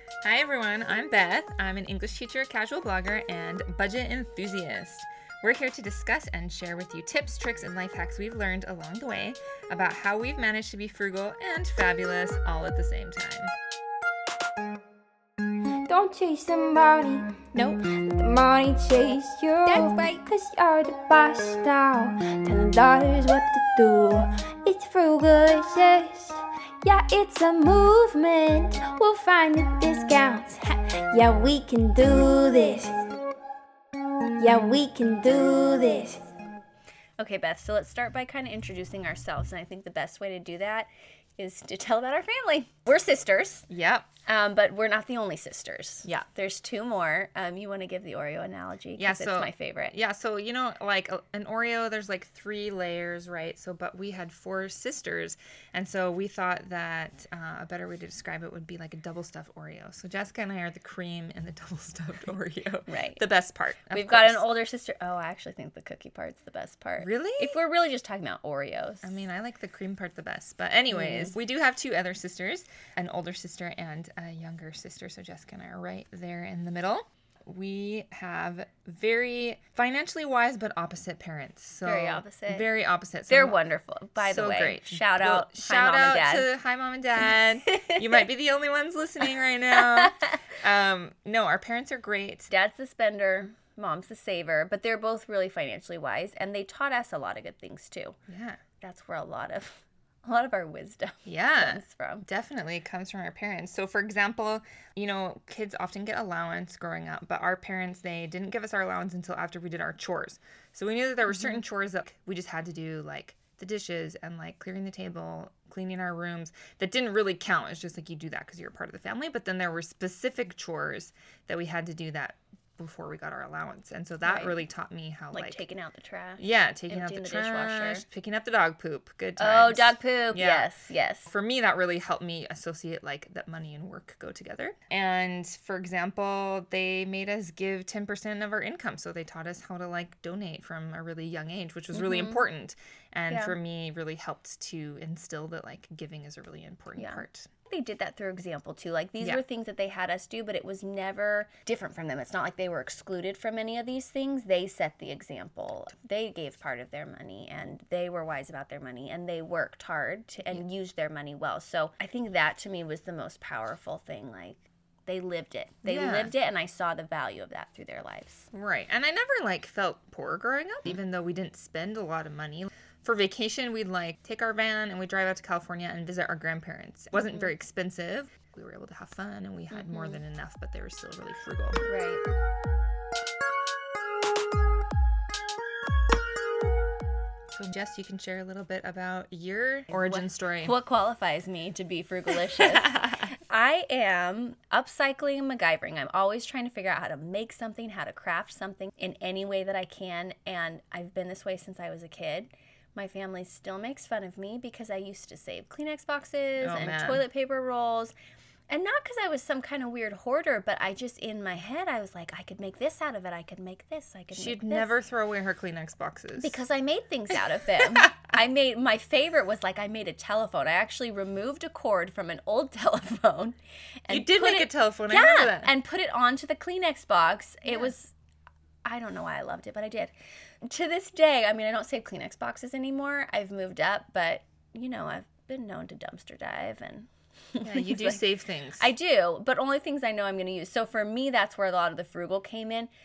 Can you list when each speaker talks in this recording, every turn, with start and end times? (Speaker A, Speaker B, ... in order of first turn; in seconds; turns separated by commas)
Speaker A: 0.2-13.5, Speaker B: 15.8-33.0, Speaker B: 34.4-36.2, Speaker C: 37.2-43.7, Speaker A: 43.7-44.1, Speaker C: 44.2-49.9, Speaker A: 49.0-64.4, Speaker C: 62.9-63.2, Speaker C: 63.9-69.2, Speaker A: 67.0-67.6, Speaker A: 69.0-83.6, Speaker C: 70.9-71.3, Speaker C: 81.8-82.7, Speaker C: 83.3-86.5, Speaker A: 84.2-92.5, Speaker C: 89.7-90.4, Speaker C: 92.5-98.2, Speaker A: 98.3-98.6, Speaker C: 98.8-102.3, Speaker A: 101.2-125.6, Speaker C: 111.3-111.6, Speaker C: 124.2-124.6, Speaker C: 125.3-128.0, Speaker A: 126.4-130.7, Speaker C: 129.4-131.3, Speaker A: 131.2-147.5, Speaker C: 141.9-142.4, Speaker C: 143.3-143.6, Speaker C: 146.9-168.5, Speaker A: 165.8-166.3, Speaker A: 168.5-181.8, Speaker C: 179.7-180.2, Speaker C: 181.8-182.2, Speaker A: 187.5-190.7, Speaker C: 189.9-208.1, Speaker A: 192.4-193.3, Speaker A: 206.6-207.2, Speaker C: 208.7-214.9, Speaker A: 214.3-216.6, Speaker C: 216.4-228.1, Speaker A: 224.1-225.7, Speaker A: 227.7-227.9, Speaker C: 228.8-230.1, Speaker C: 230.6-238.3, Speaker A: 237.6-238.9, Speaker C: 238.8-242.9